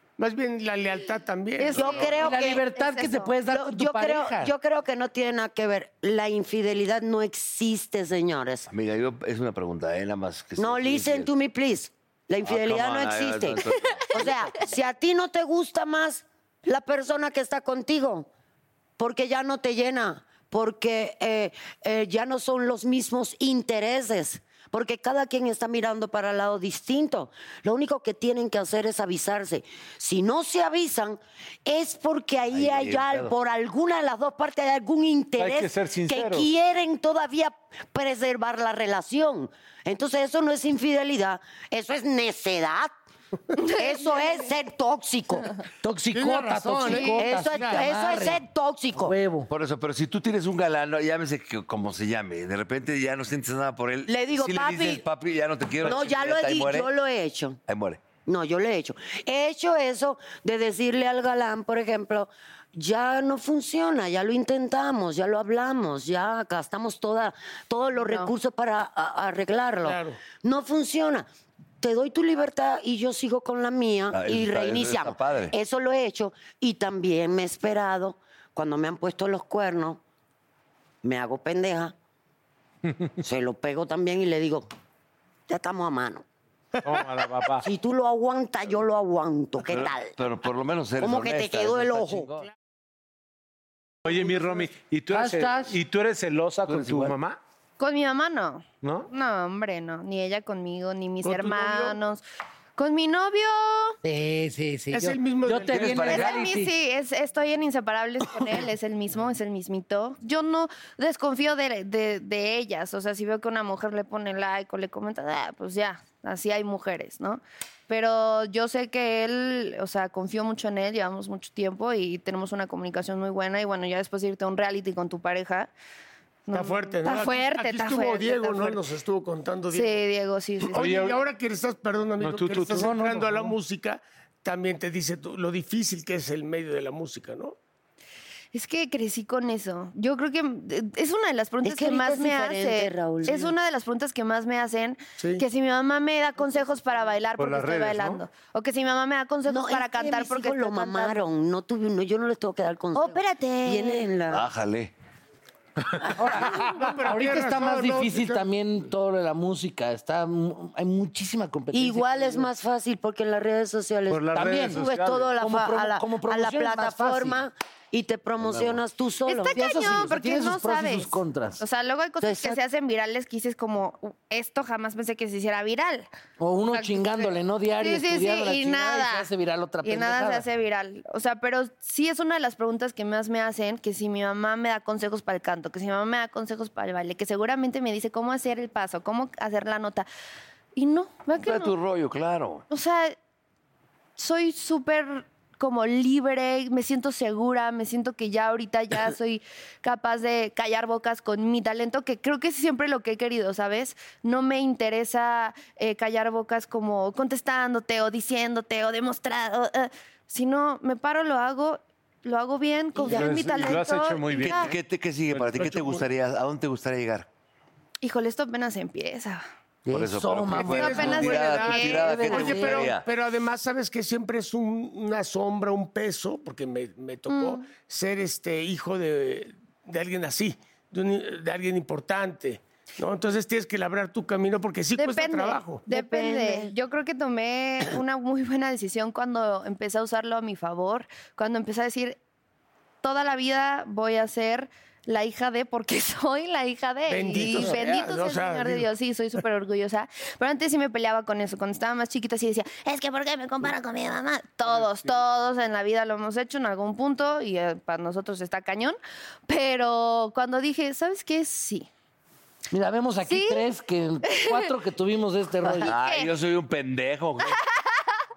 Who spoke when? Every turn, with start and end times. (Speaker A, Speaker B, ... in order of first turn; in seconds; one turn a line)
Speaker A: 0.2-2.1
Speaker B: 1.7-2.6
Speaker C: 1.8-3.4
Speaker D: 1.9-4.5
Speaker B: 3.5-8.7
Speaker E: 8.7-11.3
Speaker B: 10.6-18.3
Speaker E: 12.4-14.7
Speaker B: 19.0-42.9
Speaker E: 32.5-33.3
Speaker F: 35.4-36.5
Speaker C: 43.6-44.5
Speaker B: 43.6-45.5
Speaker D: 45.8-48.4
Speaker A: 46.1-47.9
Speaker B: 47.0-49.2
Speaker D: 49.0-49.5
Speaker E: 49.5-56.9
Speaker B: 54.1-55.0
Speaker B: 55.8-57.6
Speaker E: 57.7-58.1
Speaker B: 58.1-71.3
Speaker C: 68.0-68.3
Speaker A: 69.8-70.2
Speaker B: 71.8-80.0
Speaker E: 74.1-75.5
Speaker B: 81.0-81.9
Speaker B: 83.2-84.7
Speaker B: 85.5-86.2
Speaker F: 86.8-87.7
Speaker B: 87.6-90.2
Speaker E: 89.6-92.5
Speaker B: 91.0-92.3
Speaker F: 94.1-97.4
Speaker A: 94.1-94.5
Speaker D: 95.1-95.8
Speaker E: 96.7-97.2
Speaker C: 97.8-102.2
Speaker F: 98.8-99.1
Speaker A: 101.2-102.0
Speaker C: 102.8-104.0
Speaker D: 104.0-106.7
Speaker A: 104.9-106.2
Speaker E: 105.7-106.5
Speaker C: 106.2-125.7
Speaker C: 126.5-128.8
Speaker A: 126.5-130.0
Speaker C: 129.7-130.9
Speaker A: 130.6-137.6
Speaker F: 130.7-131.2
Speaker F: 132.2-133.1
Speaker D: 132.7-133.6
Speaker C: 138.5-151.2
Speaker B: 141.6-143.5
Speaker A: 145.2-145.4
Speaker F: 147.4-148.2
Speaker B: 149.5-154.5
Speaker C: 152.9-154.1
Speaker E: 154.3-154.9
Speaker D: 156.2-162.5
Speaker A: 156.5-158.4
Speaker B: 161.7-169.7
Speaker F: 164.1-165.3
Speaker D: 164.3-167.4
Speaker E: 168.4-168.8
Speaker C: 169.3-176.1
Speaker D: 169.5-171.6
Speaker B: 172.2-172.6
Speaker D: 176.4-180.5
Speaker C: 176.7-179.3
Speaker C: 179.8-190.1
Speaker C: 190.8-191.7
Speaker E: 191.4-192.7
Speaker C: 192.7-193.2
Speaker C: 194.2-214.8
Speaker B: 213.0-213.3
Speaker F: 213.1-214.7
Speaker E: 214.4-217.3
Speaker F: 215.3-216.0
Speaker C: 218.0-219.4
Speaker D: 219.9-223.0
Speaker E: 219.9-223.1
Speaker A: 220.5-235.9
Speaker C: 220.7-222.2
Speaker C: 227.3-227.7
Speaker C: 235.0-242.2
Speaker B: 235.9-236.7
Speaker C: 243.0-259.0
Speaker A: 247.1-248.9
Speaker C: 259.5-261.9
Speaker D: 262.7-265.9
Speaker C: 263.2-263.6
Speaker C: 264.2-264.7
Speaker C: 265.6-266.3
Speaker E: 265.9-267.6
Speaker C: 267.5-268.2